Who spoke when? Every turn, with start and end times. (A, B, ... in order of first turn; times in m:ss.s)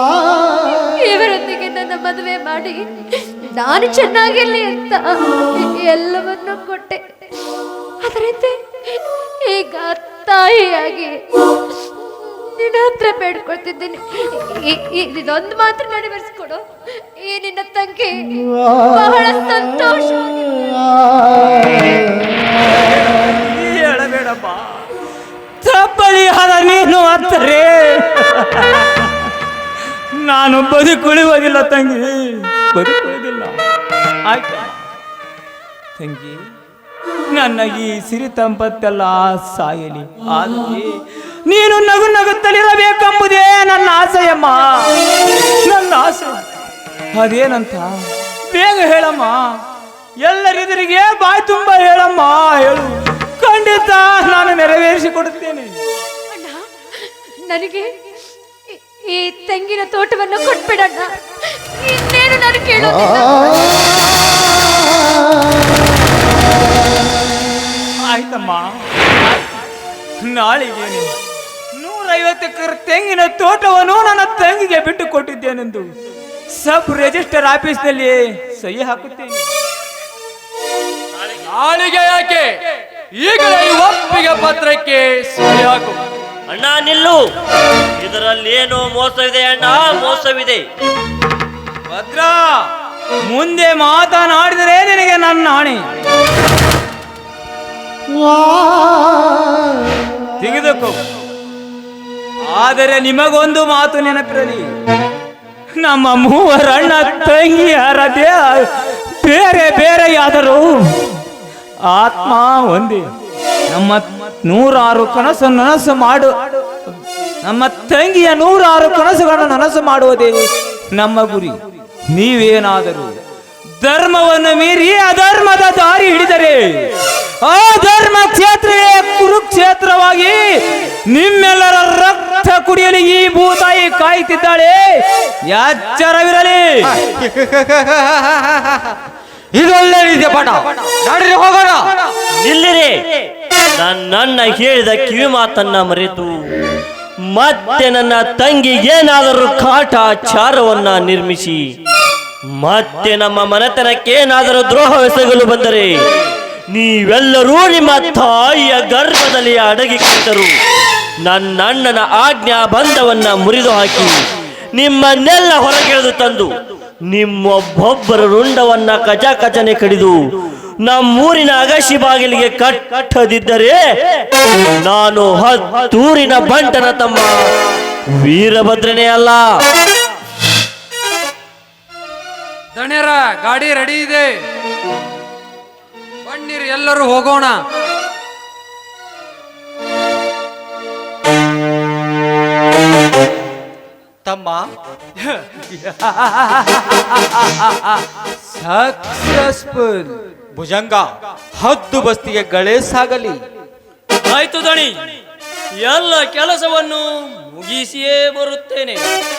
0:00.2-0:07.0 A
0:08.0-0:21.0 A
0:23.2-0:24.8 B
0:25.6-0:28.4 B
0:30.1-0:33.5 B
0:34.2-0:34.8 B
0:36.0-0:36.4 B
0:37.3-0:44.7 B
0:45.5-0:46.4 B
0:47.1-0:47.9 B
0:48.5-0:49.6 B
0:50.2-0:55.7 B
0:56.3-0:58.0 A
0:58.7-1:04.1 A
1:08.0-1:08.8 B
1:10.2-1:11.1 B
1:11.7-1:15.9 B
1:16.5-1:19.4 B
1:21.4-1:22.5 C
1:23.2-1:26.0 C
1:26.5-1:27.2 D
1:28.0-1:30.6 D
1:31.9-1:32.6 B
1:33.2-1:35.8 B
1:40.4-1:41.0 B
1:42.4-1:44.6 B
1:45.8-1:48.6 B
1:49.2-1:50.7 B
1:51.8-1:53.1 B
1:53.7-1:56.6 B
1:57.4-2:03.1 B
2:03.7-2:10.4 B
2:11.0-2:16.9 B
2:16.9-2:18.9 E
2:19.5-2:22.0 E
2:22.4-2:23.1 D
2:23.7-2:26.3 D
2:27.2-2:31.7 D
2:32.5-2:36.0 D
2:36.7-2:40.6 D
2:41.2-2:44.2 D
2:44.7-2:46.6 D
2:47.1-2:50.2 D
2:50.8-2:53.8 D
2:54.8-2:57.3 D
2:58.1-2:59.4 D
3:02.8-3:04.4 C
3:06.2-3:07.6 C
3:14.2-3:14.7 E
3:18.5-3:20.2 C
3:20.5-3:23.4 E
3:24.3-3:25.2 F
3:25.8-3:29.1 F